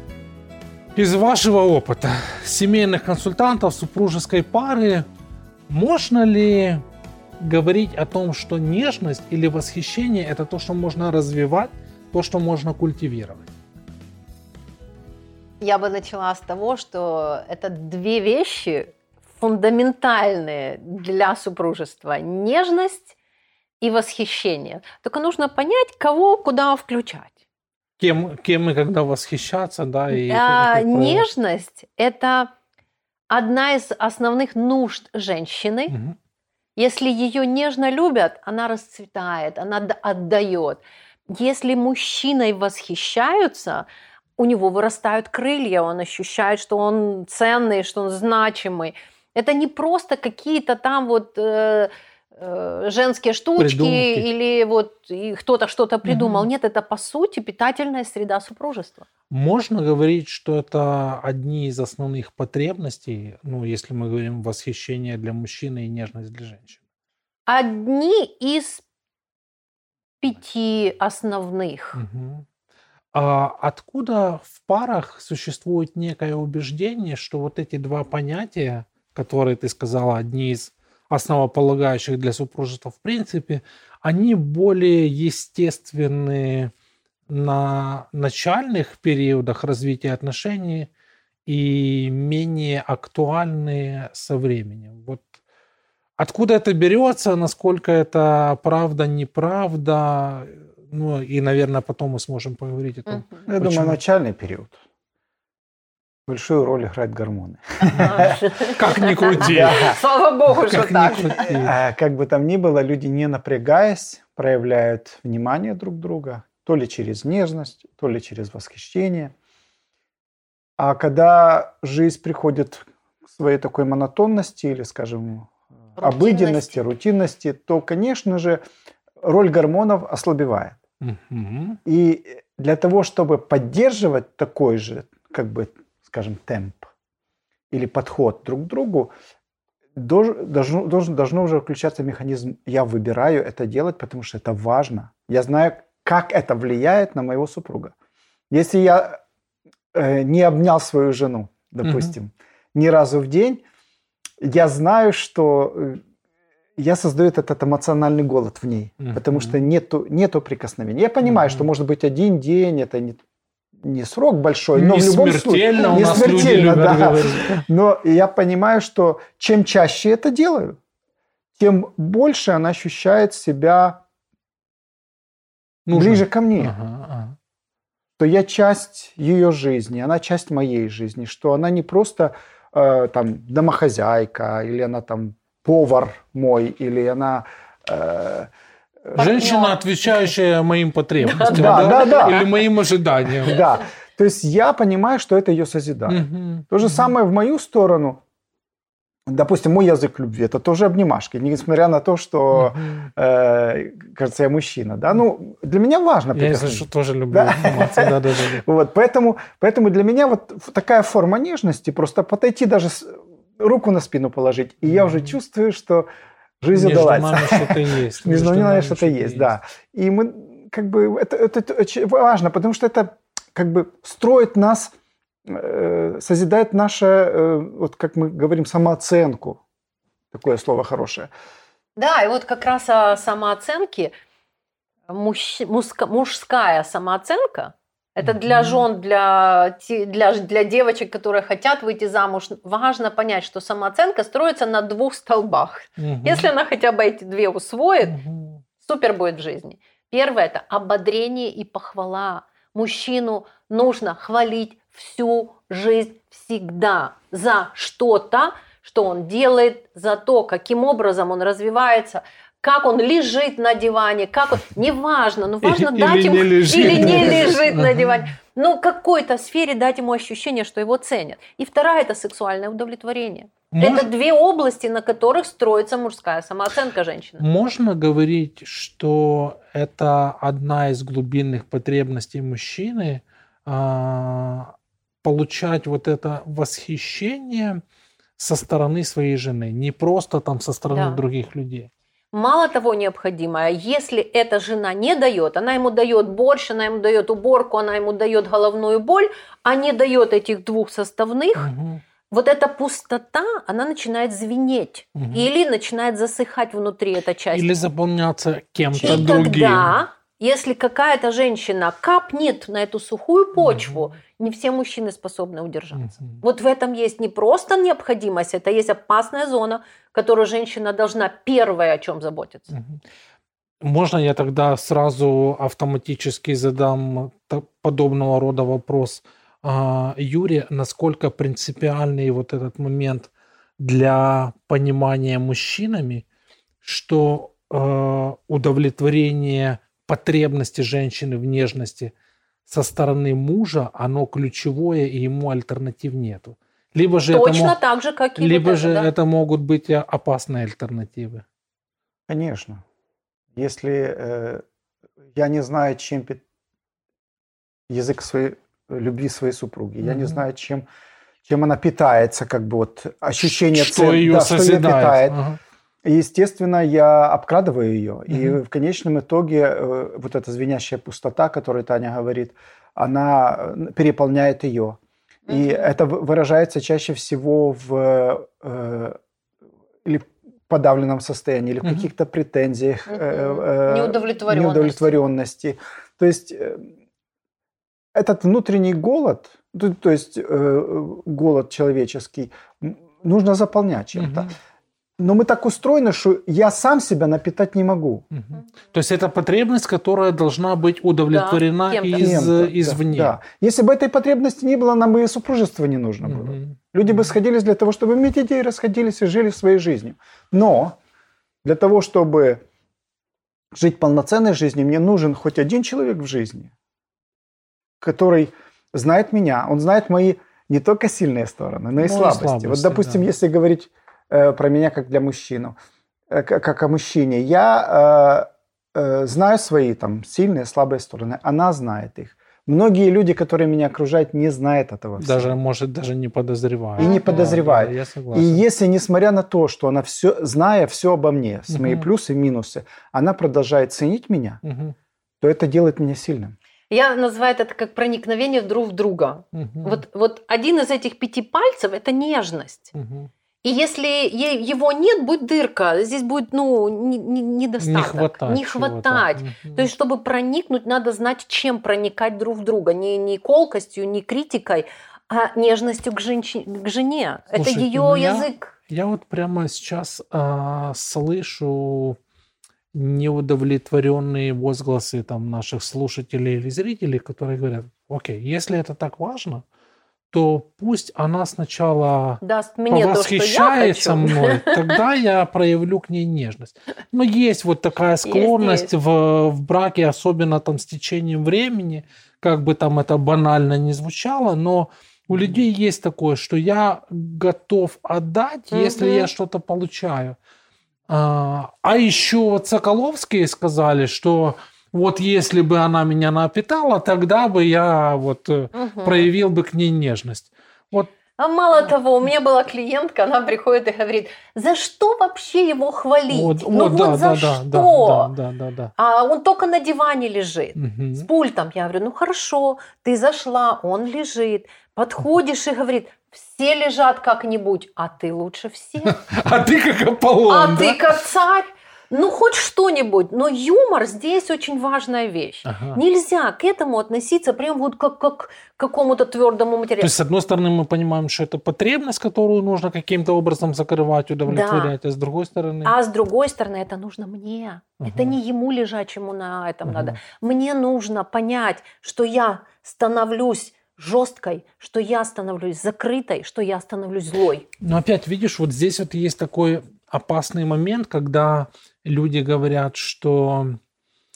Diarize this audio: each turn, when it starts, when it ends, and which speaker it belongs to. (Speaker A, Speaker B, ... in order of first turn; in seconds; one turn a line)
Speaker A: 1.0-5.0
Speaker A: 5.7-6.8
Speaker A: 7.4-13.5
Speaker B: 15.6-23.1
Speaker B: 23.8-27.4
Speaker A: 28.0-31.3
Speaker B: 30.1-32.5
Speaker B: 33.3-36.0
Speaker A: 35.9-36.2
Speaker B: 36.8-43.9
Speaker B: 44.4-59.0
Speaker A: 53.6-54.3
Speaker A: 56.0-56.5
Speaker A: 59.3-66.8
Speaker B: 67.5-68.8
Speaker B: 70.2-72.0
Speaker A: 72.0-72.5
Speaker A: 73.1-86.7
Speaker A: 87.3-90.9
Speaker A: 91.5-95.3
Speaker A: 96.2-104.0
Speaker B: 103.1-103.5
Speaker C: 103.5-104.8
Speaker C: 106.3-108.4
Speaker B: 107.8-111.5
Speaker A: 108.0-110.0
Speaker C: 109.4-110.0
Speaker A: 110.5-111.7
Speaker C: 111.3-119.3
Speaker C: 120.8-128.6
Speaker B: 126.0-126.8
Speaker C: 129.2-130.8
Speaker A: 131.0-131.8
Speaker C: 131.8-136.9
Speaker C: 137.7-139.1
Speaker C: 139.9-147.9
Speaker C: 148.5-149.2
Speaker C: 149.9-153.6
Speaker A: 151.8-152.1
Speaker C: 154.4-156.0
Speaker C: 156.8-163.2
Speaker A: 159.0-159.6
Speaker A: 161.2-161.7
Speaker C: 163.8-170.8
Speaker A: 164.8-167.6
Speaker B: 166.0-166.4
Speaker C: 171.6-174.0
Speaker C: 175.9-176.8
Speaker A: 175.9-177.4
Speaker C: 178.2-188.5
Speaker A: 189.2-193.7
Speaker B: 189.2-190.3
Speaker B: 191.2-192.5
Speaker C: 191.5-192.5
Speaker C: 193.4-198.2
Speaker A: 196.1-197.1
Speaker C: 199.3-216.1
Speaker A: 202.5-203.1
Speaker A: 206.3-208.6
Speaker A: 214.8-215.3
Speaker C: 216.6-224.9
Speaker A: 216.7-219.5
Speaker C: 225.4-229.6
Speaker C: 230.3-231.3
Speaker B: 232.0-234.1
Speaker B: 235.1-248.2
Speaker A: 238.2-238.8
Speaker A: 246.0-246.5
Speaker A: 248.0-248.6
Speaker B: 248.8-277.5
Speaker A: 265.6-268.2
Speaker A: 273.7-274.1
Speaker A: 277.4-287.8
Speaker A: 288.4-291.9
Speaker B: 290.9-291.2
Speaker B: 292.3-301.7
Speaker A: 301.6-302.0
Speaker B: 302.3-307.7
Speaker A: 305.2-305.5
Speaker A: 307.5-309.9
Speaker B: 309.0-322.7
Speaker A: 313.6-314.0
Speaker A: 315.9-316.4
Speaker A: 322.7-323.0
Speaker A: 323.8-336.2
Speaker A: 336.8-342.1
Speaker A: 342.7-347.8
Speaker B: 347.3-349.1
Speaker A: 348.4-351.4
Speaker C: 352.3-352.8
Speaker C: 353.6-354.6
Speaker C: 355.3-356.4
Speaker C: 357.9-360.9
Speaker A: 360.0-360.4
Speaker C: 361.5-365.4
Speaker A: 363.4-365.6
Speaker C: 366.1-379.2
Speaker A: 368.3-368.6
Speaker B: 375.5-375.9
Speaker C: 380.1-386.9
Speaker A: 381.8-382.1
Speaker B: 383.1-385.2
Speaker C: 388.1-394.5
Speaker A: 394.1-394.5
Speaker C: 395.2-398.2
Speaker A: 398.3-403.4
Speaker B: 401.3-402.4
Speaker C: 402.1-411.0
Speaker A: 406.2-407.3
Speaker C: 411.6-412.6
Speaker C: 413.7-416.7
Speaker C: 418.0-425.8
Speaker A: 422.0-423.3
Speaker C: 426.3-435.5
Speaker A: 435.2-438.6
Speaker C: 437.0-444.6
Speaker B: 437.0-437.6
Speaker A: 441.7-442.1
Speaker A: 444.6-444.9
Speaker C: 445.4-446.6
Speaker B: 446.9-452.9
Speaker A: 449.5-450.0
Speaker A: 452.9-453.3
Speaker B: 453.6-468.7
Speaker A: 457.8-459.9
Speaker A: 467.5-472.2
Speaker A: 472.9-479.6
Speaker A: 480.3-500.4
Speaker B: 482.4-485.0
Speaker B: 488.2-488.9
Speaker B: 498.7-499.3
Speaker A: 501.1-511.1
Speaker B: 508.7-509.3
Speaker B: 511.4-518.3
Speaker A: 516.3-518.9
Speaker B: 519.0-529.2
Speaker A: 520.8-521.3
Speaker A: 529.0-531.0
Speaker B: 530.5-540.1
Speaker A: 535.7-536.0
Speaker A: 540.0-546.0
Speaker B: 544.5-544.9
Speaker B: 545.8-557.7
Speaker A: 548.0-548.4
Speaker A: 549.9-550.2
Speaker A: 557.8-563.8